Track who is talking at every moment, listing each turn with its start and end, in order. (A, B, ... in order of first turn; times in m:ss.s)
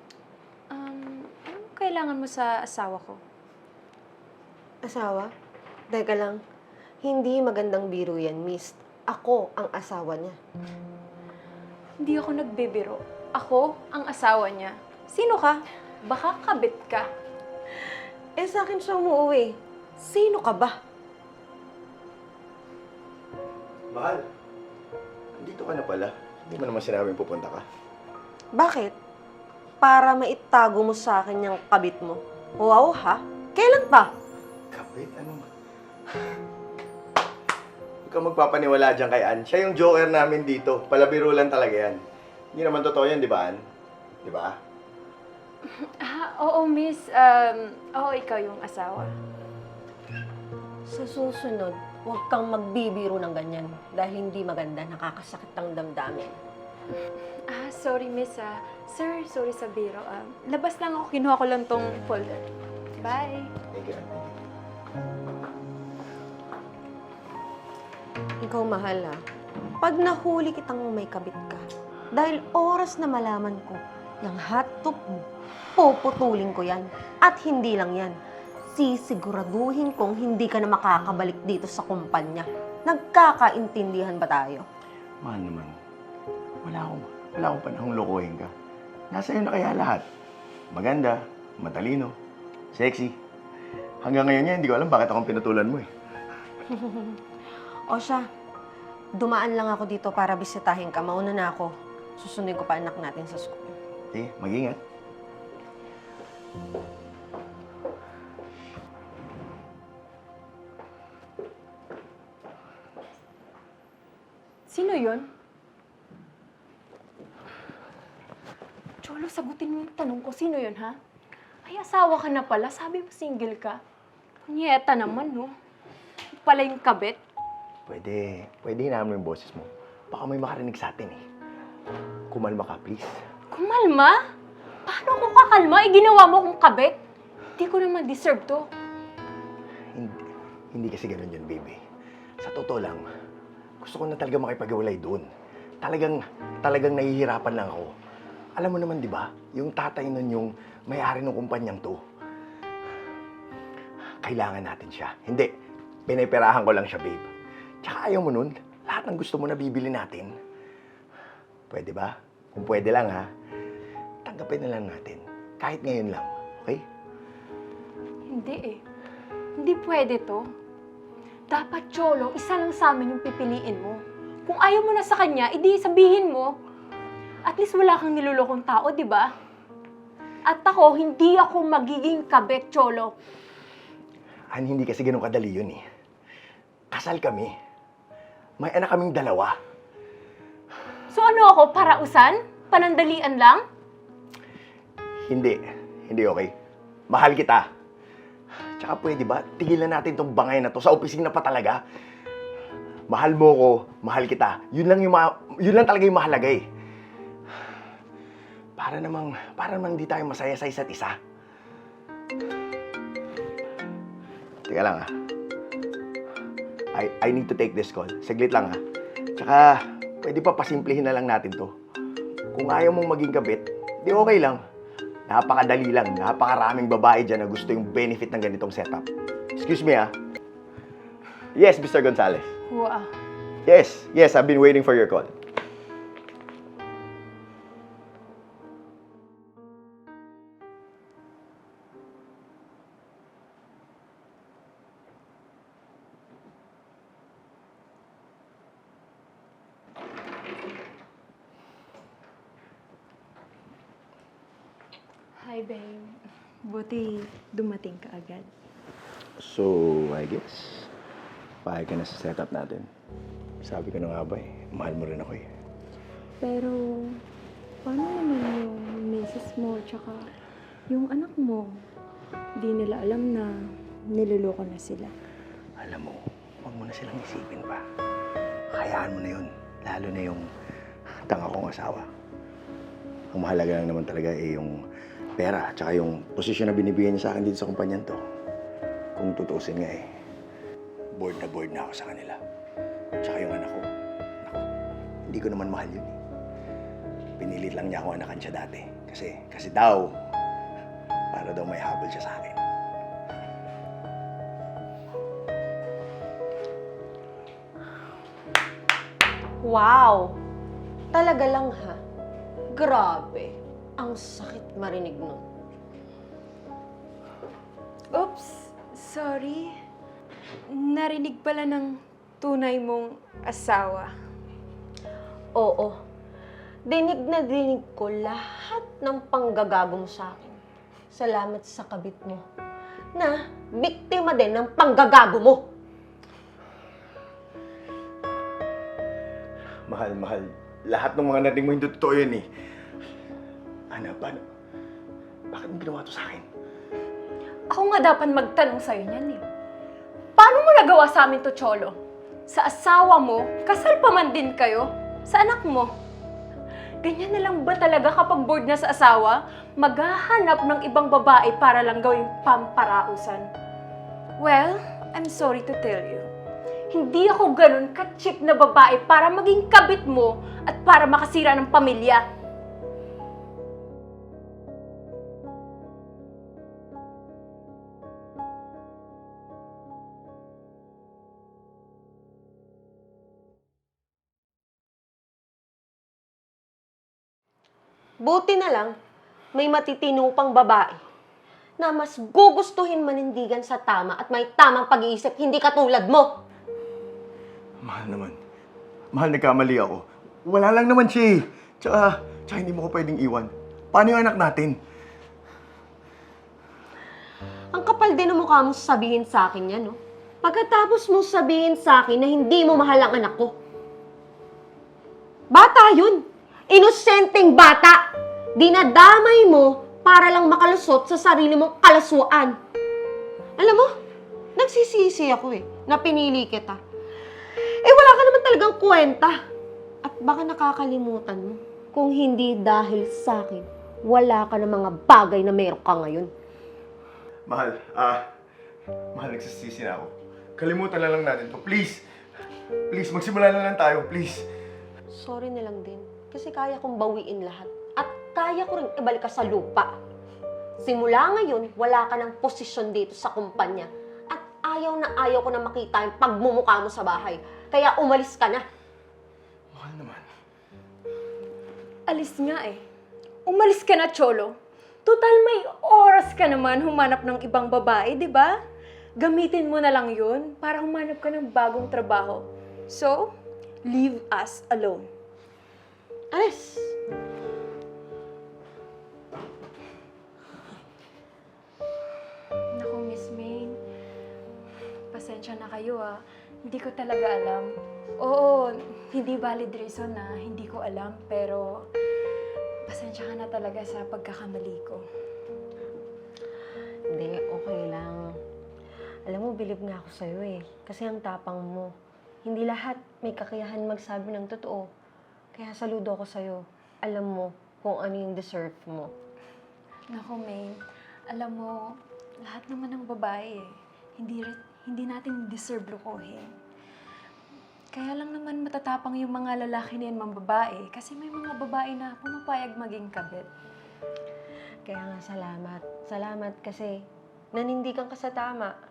0:00.7-0:03.2 A
0:04.8-0:05.3 B
0:05.9-0:06.4 B
0:07.0-0:10.4 B
0:12.0-0:17.1 A
0:18.4-0:20.8 B
0:23.9-0:24.3 C
0:25.4-0:27.6 C
0:28.5-0:28.9 B
0:29.8-0:34.1 B
0:34.7-0:35.5 C
0:36.1-0:36.4 C
0:38.0-0:42.0 C
0:42.5-0:43.6 C
0:44.2-0:44.6 C
0:45.7-0:49.1 A
0:50.9-0:56.4 B
0:57.5-1:02.4 A
1:03.0-1:03.5 A
1:03.7-1:04.4 C
1:08.4-1:09.2 B
1:09.8-1:15.2 B
1:15.8-1:18.2 B
1:18.7-1:24.6 B
1:25.2-1:25.8 C
1:26.6-1:28.5 C
1:29.1-1:30.0 C
1:30.7-1:32.2 C
1:32.7-1:33.1 C
1:34.0-1:35.9 C
1:36.7-1:37.2 B
1:37.9-1:38.2 B
1:39.2-1:43.7 B
1:44.1-1:44.8 C
1:54.7-1:55.3 A
1:59.0-2:01.0 A
2:01.6-2:03.8 A
2:04.4-2:05.5 A
2:06.4-2:07.2 A
2:07.9-2:11.2 C
2:12.3-2:13.2 C
2:13.5-2:14.2 A
2:14.8-2:17.0 A
2:17.6-2:18.7 A
2:19.9-2:21.8 C
2:22.4-2:23.0 C
2:23.8-2:25.3 C
2:25.8-2:27.9 C
2:28.6-2:32.0 C
2:34.2-2:35.5 C
2:36.1-2:37.3 C
2:37.8-2:40.3 C
2:41.7-2:43.3 C
2:44.2-2:46.8 C
2:48.3-2:48.8 A
2:49.6-2:50.5 A
2:51.5-2:56.5 A
2:57.4-2:59.3 A
3:00.4-3:03.1 A
3:04.5-3:05.8 C
3:06.9-3:07.5 C
3:08.6-3:09.6 C
3:11.1-3:13.6 A
3:15.3-3:16.5 C
3:17.1-3:17.7 C
3:18.8-3:21.8 C
3:23.1-3:26.6 C
3:28.8-3:31.2 C
3:34.7-3:35.1 C
3:36.9-3:38.8 C
3:39.4-3:41.7 C
3:42.5-3:44.6 C
3:45.3-3:50.1 C
3:51.5-3:52.5 C
3:52.7-3:53.1 A
3:53.6-3:55.3 C
4:15.4-4:18.5 A
4:19.4-4:20.9 C
4:21.6-4:22.9 C
4:23.6-4:25.5 C
4:26.4-4:27.2 A
4:27.8-4:30.3 A
4:30.9-4:31.8 A
4:32.6-4:35.1 A
4:35.8-4:37.8 C
4:38.7-4:40.5 C
4:41.3-4:42.1 C
4:43.3-4:44.8 C
4:45.4-4:48.2 C
4:49.2-4:50.1 C
4:51.2-4:52.4 C
4:53.2-4:53.9 C
4:55.3-4:56.2 C
4:57.4-5:00.1 C
5:01.3-5:02.6 C
5:09.6-5:10.4 B
5:11.1-5:12.0 B
5:12.7-5:15.4 B
5:18.1-5:19.7 A
5:20.7-5:24.1 A
5:25.5-5:26.0 B
5:26.9-5:30.6 B
5:31.1-5:32.4 B
5:33.1-5:35.6 B
5:39.9-5:42.4 C
5:43.9-5:44.4 C
5:45.5-5:46.4 C
5:47.7-5:49.4 A
5:50.4-5:55.9 A
5:57.0-6:03.5 A
6:04.4-6:06.3 A
6:06.9-6:12.2 A
6:28.2-6:29.0 B
6:29.5-6:31.0 B
6:31.8-6:36.3 B
6:37.8-6:38.4 C
6:39.1-6:44.8 C
6:47.7-6:53.5 B
6:55.5-6:58.0 B
6:58.6-7:02.6 B
7:03.6-7:03.9 B
7:04.6-7:06.8 B
7:07.8-7:09.4 B
7:10.0-7:16.3 B
7:17.5-7:18.2 C
7:19.1-7:22.0 C
7:22.9-7:24.5 C
7:25.1-7:29.9 B
7:30.8-7:38.6 B
7:39.7-7:40.3 C
7:42.1-7:42.8 A
7:43.4-7:48.6 A
7:49.2-7:53.3 A
7:53.8-7:55.1 A
7:56.3-7:57.0 B
8:02.7-8:03.8 A
8:05.1-8:11.8 A
8:12.8-8:15.0 A
8:17.1-8:18.3 B
8:19.3-8:21.9 B
8:22.4-8:24.9 B
8:25.5-8:29.1 B
8:30.1-8:36.5 A
8:37.9-8:43.5 A
8:44.8-8:47.0 B
8:47.5-8:48.7 B